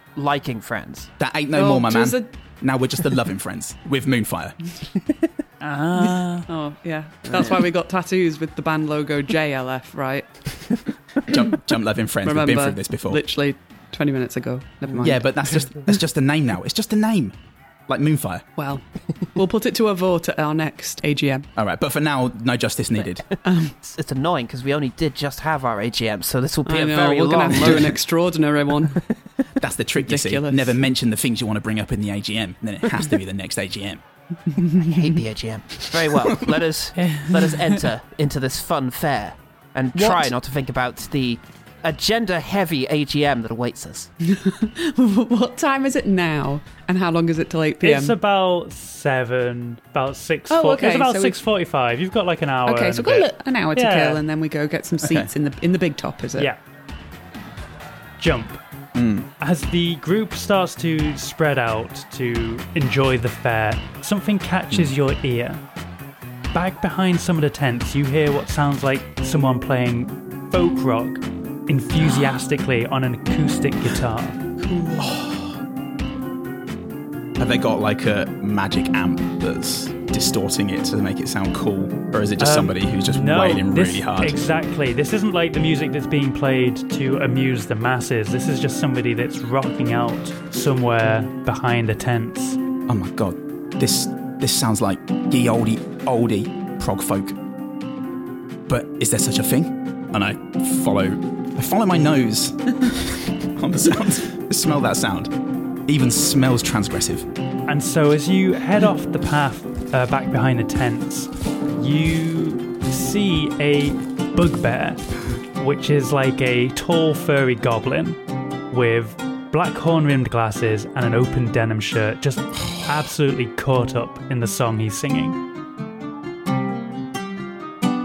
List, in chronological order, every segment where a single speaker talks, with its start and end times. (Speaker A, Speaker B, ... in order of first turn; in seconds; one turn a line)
Speaker A: 0.1-1.1
Speaker B: 1.2-4.6
Speaker C: 1.5-2.3
Speaker D: 5.6-6.4
Speaker C: 6.5-10.6
Speaker A: 7.3-7.6
Speaker B: 11.2-13.2
Speaker C: 12.2-16.0
Speaker B: 15.0-17.4
Speaker B: 17.9-18.4
Speaker C: 18.6-21.5
Speaker B: 21.6-23.2
Speaker A: 22.9-28.0
Speaker C: 23.4-23.7
Speaker C: 26.6-29.0
Speaker B: 29.6-34.0
Speaker C: 30.0-30.8
Speaker C: 34.5-35.0
Speaker A: 34.8-44.1
Speaker D: 37.0-37.8
Speaker C: 40.0-40.2
Speaker C: 44.2-48.1
Speaker E: 47.8-54.2
Speaker C: 50.5-51.4
Speaker C: 52.6-56.5
Speaker B: 55.0-55.3
Speaker E: 58.2-58.6
Speaker B: 58.9-59.3
Speaker E: 59.4-65.6
Speaker E: 66.5-74.5
Speaker D: 74.6-75.1
Speaker B: 75.0-75.6
Speaker B: 77.4-84.4
Speaker E: 82.4-92.6
Speaker B: 92.9-97.4
Speaker B: 98.7-105.3
Speaker B: 105.9-107.3
Speaker E: 107.7-118.2
Speaker E: 118.7-125.4